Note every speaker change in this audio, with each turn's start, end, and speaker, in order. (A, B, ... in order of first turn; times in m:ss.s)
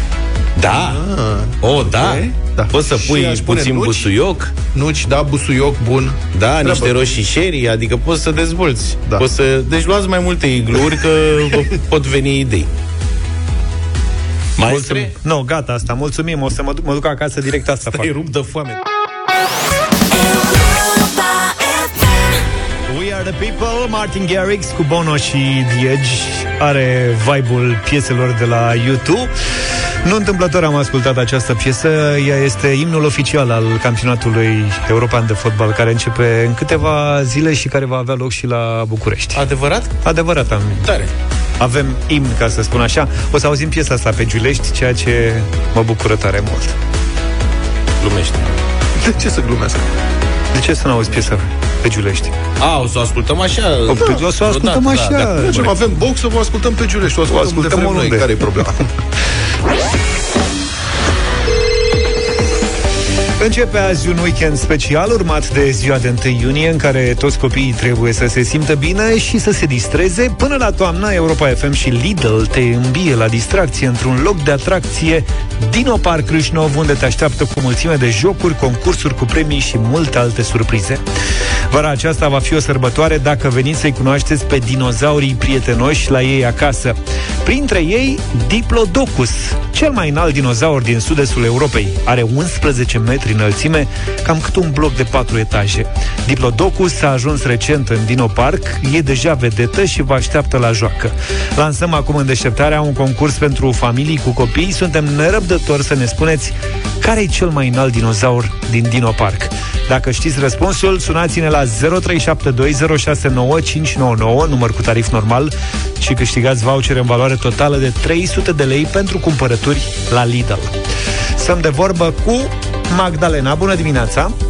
0:00.6-0:01.0 A
0:00.7-0:04.1 B
0:01.6-0:04.5 A
0:04.7-0:07.2 B
0:06.3-0:12.7 A
0:14.6-0:15.1 A
0:14.7-0:18.1 C
0:17.9-0:18.8 A
0:22.9-0:29.3 C
0:30.0-0:39.4 C
0:39.3-0:39.9 A
0:40.0-0:40.8 C
0:40.8-0:41.1 A
0:41.6-0:46.8 C
0:48.0-0:48.5 A
0:49.0-0:49.8 B
0:50.5-0:52.3 C
0:52.6-0:55.6 A
0:53.9-0:55.7 C
0:55.4-0:58.9 B
0:57.3-0:58.4 C
1:03.4-1:21.0 C
1:21.7-2:00.7 C
2:01.4-2:04.3 C